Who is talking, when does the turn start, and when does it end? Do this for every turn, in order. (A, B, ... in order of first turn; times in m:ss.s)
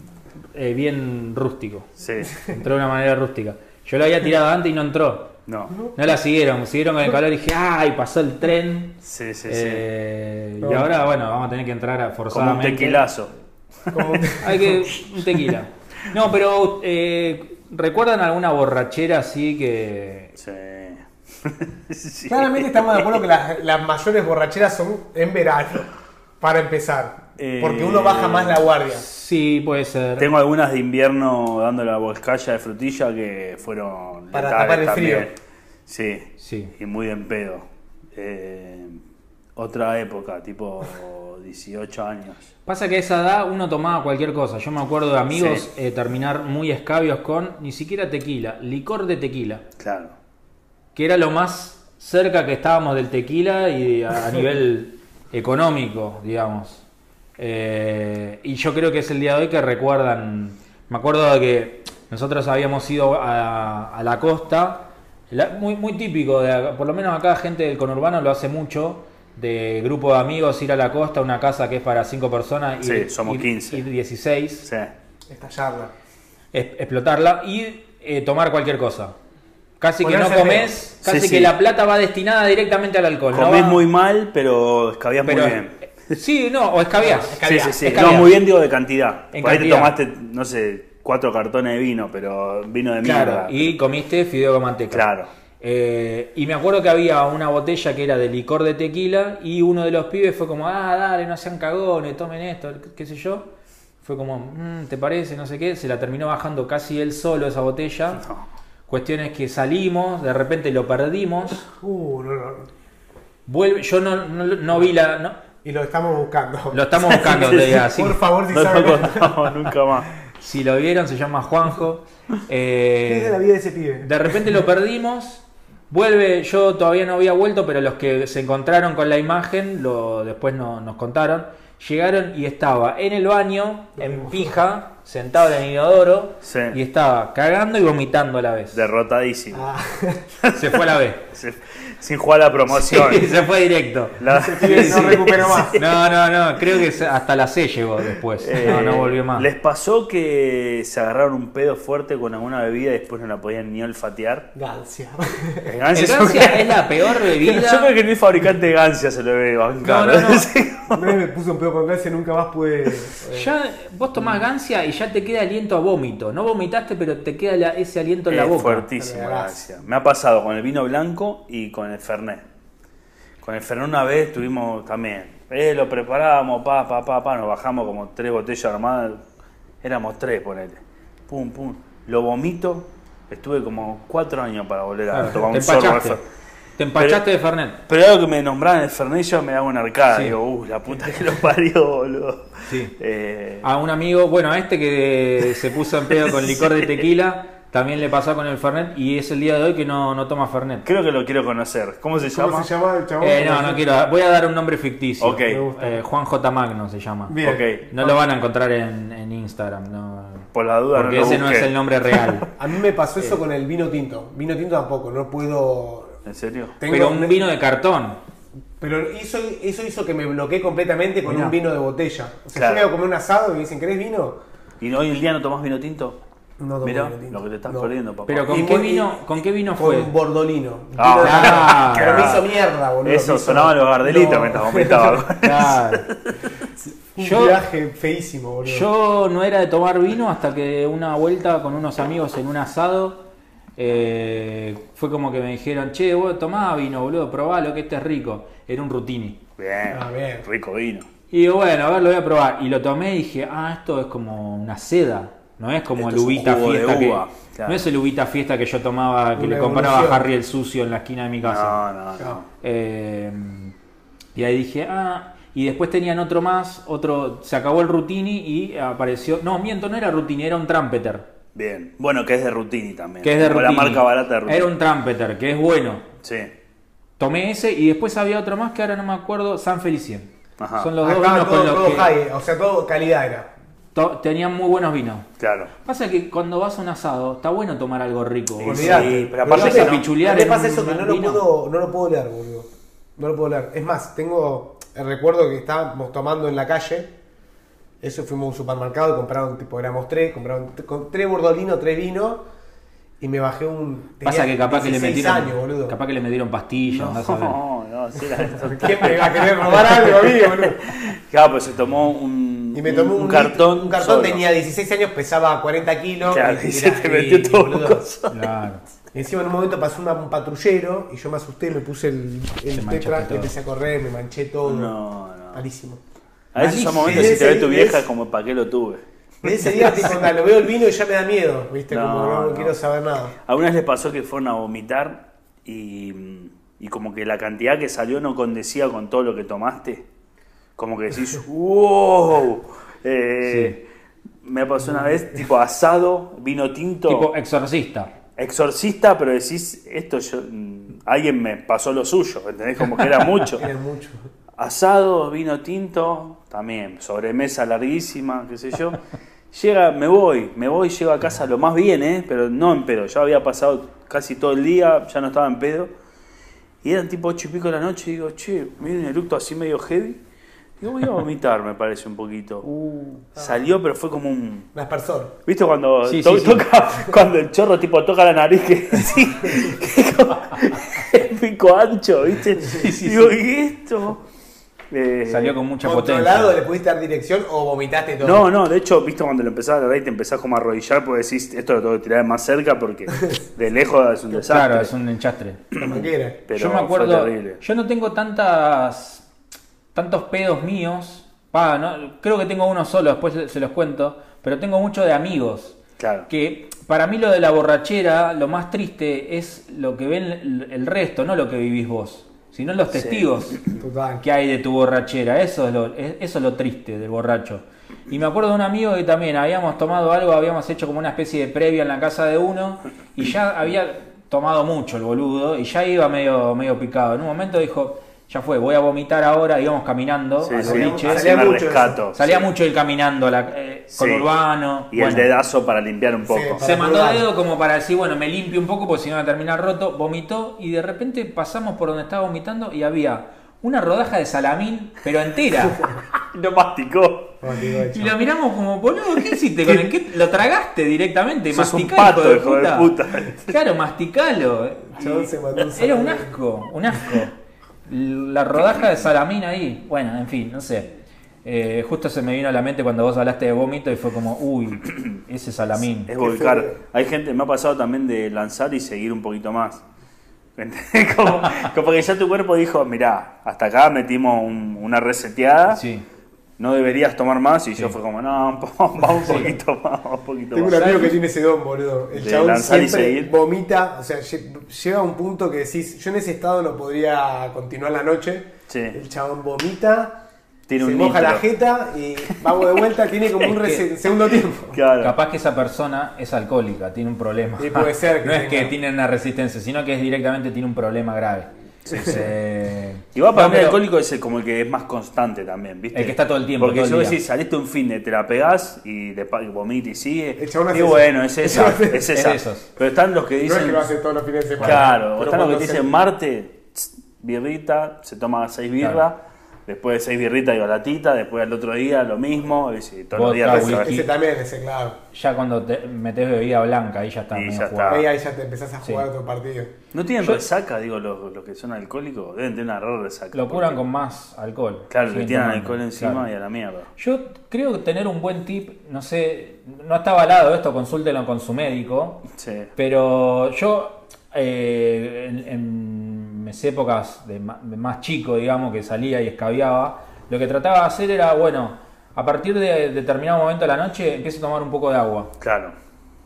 0:00.5-0:01.9 A
0:02.0-0:02.3 B
0:02.5-0:05.3 A
0:05.5-0:05.8 B
0:05.9-0:09.0 A
0:09.0-0:09.8 B
0:09.5-0:13.1 A
0:10.6-0:10.9 C
0:12.3-0:13.3 B
0:13.9-0:15.0 C
0:14.4-0:20.3 A
0:20.4-0:23.2 B
0:22.3-0:25.9 C
0:26.4-0:29.1 C
0:27.4-0:28.7 B
0:28.9-0:30.3 A
0:30.2-0:35.3 B
0:34.3-0:35.3 C
0:35.9-0:37.6 B
0:36.4-0:36.7 A
0:38.2-0:39.0 B
0:39.6-0:42.5 B
0:42.7-0:49.6 A
0:45.3-0:45.7 B
0:49.8-0:50.1 B
0:50.9-0:56.8 A
0:57.4-1:14.7 A
1:12.8-1:13.8 B
1:14.6-1:14.9 B
1:15.3-1:15.9 C
1:16.5-1:19.2 A
1:19.8-1:23.8 A
1:20.0-1:20.8 C
1:21.0-1:21.5 B
1:23.3-1:26.2 B
1:25.2-1:28.4 A
1:27.0-1:28.2 C
1:27.4-1:33.7 B
1:29.3-1:30.0 A
1:33.0-1:35.0 A
1:34.9-1:35.3 B
1:35.6-1:43.5 A
1:44.0-1:48.2 A
1:48.9-1:51.7 A
1:51.8-1:52.7 C
1:53.5-1:55.4 A
1:55.6-1:59.4 C
1:56.7-1:58.2 A
1:58.5-2:00.1 B
2:00.4-2:03.4 A
2:03.0-2:04.4 C
2:04.0-2:18.8 A
2:14.0-2:14.6 C
2:16.4-2:16.8 B
2:18.7-2:19.7 B
2:19.5-2:20.2 C
2:20.4-2:23.4 B
2:20.5-2:21.2 A
2:22.7-2:29.5 A
2:24.2-2:26.1 B
2:24.3-2:25.8 C
2:28.4-2:34.5 B
2:34.5-2:36.5 C
2:35.6-2:41.2 B
2:35.9-2:37.9 A
2:39.8-2:40.5 A
2:40.9-2:43.5 C
2:43.3-2:48.8 A
2:48.3-2:52.4 B
2:49.0-2:49.6 C
2:53.4-2:59.2 B
2:59.8-3:06.2 B
3:05.1-3:06.2 A
3:06.8-3:07.8 A
3:07.9-3:13.7 B
3:12.7-3:12.9 A
3:13.6-3:20.8 A
3:16.2-3:17.0 B
3:20.8-3:22.7 B
3:22.3-3:23.8 C
3:23.2-3:27.4 A
3:25.2-3:25.6 B
3:25.4-3:26.0 C
3:27.3-3:28.2 C
3:27.4-3:27.8 B
3:27.9-3:32.5 A
3:30.5-3:32.3 B
3:32.6-3:36.2 C
3:36.3-3:36.8 B
3:36.8-3:37.4 C
3:36.9-3:38.2 A
3:38.8-3:44.4 C
3:41.3-3:41.5 A
3:42.5-3:42.9 B
3:44.8-3:46.2 B
3:46.6-3:47.9 C
3:46.8-3:48.6 B
3:48.3-3:50.1 A
3:48.5-3:49.2 C
3:49.8-3:55.3 C
3:51.0-3:52.5 B
3:51.2-3:52.3 A
3:53.0-3:56.4 B
3:55.4-3:56.0 A
3:56.8-3:58.9 C
3:57.2-3:57.6 A
3:58.6-4:03.2 A
4:03.8-4:09.4 A
4:09.6-4:11.1 B
4:09.9-4:10.5 C
4:11.3-4:21.8 A
4:16.0-4:17.8 B
4:19.4-4:20.3 C
4:21.4-4:22.4 B
4:22.6-4:23.8 A
4:24.4-4:31.3 A
4:31.5-4:34.7 B
4:33.2-4:36.0 A
4:36.2-4:36.5 B
4:37.2-4:42.1 A
4:40.6-4:40.9 B
4:41.0-4:43.5 C
4:44.0-4:45.2 A
4:45.4-4:45.7 B
4:45.8-4:51.4 A
4:48.6-4:50.1 B
4:48.6-4:57.1 C
4:58.0-5:02.4 C
5:03.2-5:06.0 C
5:04.2-5:07.6 A
5:06.8-5:14.4 B
5:08.6-5:10.8 C
5:12.7-5:18.0 C
5:16.2-5:18.5 B
5:18.3-5:18.8 A
5:19.1-5:24.9 C
5:22.7-5:23.5 A
5:24.6-5:25.6 B
5:25.5-5:26.0 C
5:26.5-5:30.2 B
5:26.6-5:27.4 A
5:27.0-5:28.0 C
5:29.4-5:33.3 C
5:31.9-5:32.7 B
5:33.5-5:40.0 B
5:40.8-5:43.8 B
5:43.4-5:43.8 A
5:44.4-5:47.3 B
5:45.0-5:45.2 C
5:47.1-5:48.1 A
5:48.4-5:53.7 B
5:53.5-5:54.3 C
5:54.6-5:59.0 B
5:59.5-6:05.9 B
6:06.8-6:10.2 B
6:10.8-6:12.6 B
6:12.6-6:13.7 C
6:13.4-6:14.7 B
6:14.7-6:15.3 C
6:15.4-6:24.2 B
6:16.0-6:16.7 A
6:22.6-6:23.4 A
6:24.9-6:25.6 B
6:25.3-6:26.6 A
6:25.8-6:28.5 C
6:28.2-6:34.9 B
6:34.4-6:35.6 A
6:35.7-6:37.6 B
6:35.8-6:36.4 C
6:36.5-6:39.2 A
6:39.9-6:45.8 A
6:46.0-6:46.3 B
6:46.3-6:53.6 A
6:52.9-6:53.8 B
6:53.8-6:54.2 C
6:54.2-7:11.4 A
7:10.4-7:12.5 B
7:10.6-7:12.0 C
7:12.1-7:15.3 A
7:13.9-7:14.3 B
7:14.9-7:16.6 B
7:16.2-7:17.3 C
7:16.6-7:25.9 A
7:26.1-7:27.4 B
7:27.4-7:28.2 C
7:27.9-7:37.4 A
7:31.5-7:33.6 B
7:34.9-7:36.3 C
7:37.9-7:40.9 A
7:41.4-7:46.1 A
7:46.0-7:49.8 B
7:46.2-7:46.8 C
7:50.6-7:55.8 B
7:55.7-7:56.0 A
7:56.6-8:01.1 B
7:59.2-7:59.5 A
7:59.2-7:59.5 C
8:00.5-8:10.2 C
8:02.1-8:03.3 B
8:08.7-8:09.0 B
8:10.7-8:11.4 B
8:10.8-8:14.8 C
8:14.7-8:15.2 B
8:15.0-8:23.8 A
8:17.6-8:18.8 C
8:21.9-8:22.2 B
8:23.1-8:33.9 B
8:25.9-8:27.2 A
8:30.4-8:32.1 C
8:32.1-8:32.7 A
8:33.4-8:35.9 C
8:34.6-8:44.0 B
8:43.1-8:44.0 A
8:43.5-8:45.0 C
8:45.1-8:48.0 A
8:47.3-8:48.0 B
8:47.9-8:49.7 C
8:49.9-8:53.8 B
8:53.3-8:56.2 A
8:54.9-8:56.9 B
8:57.0-9:02.2 A
9:02.3-9:02.7 B
9:02.8-9:15.3 A
9:15.4-9:15.8 B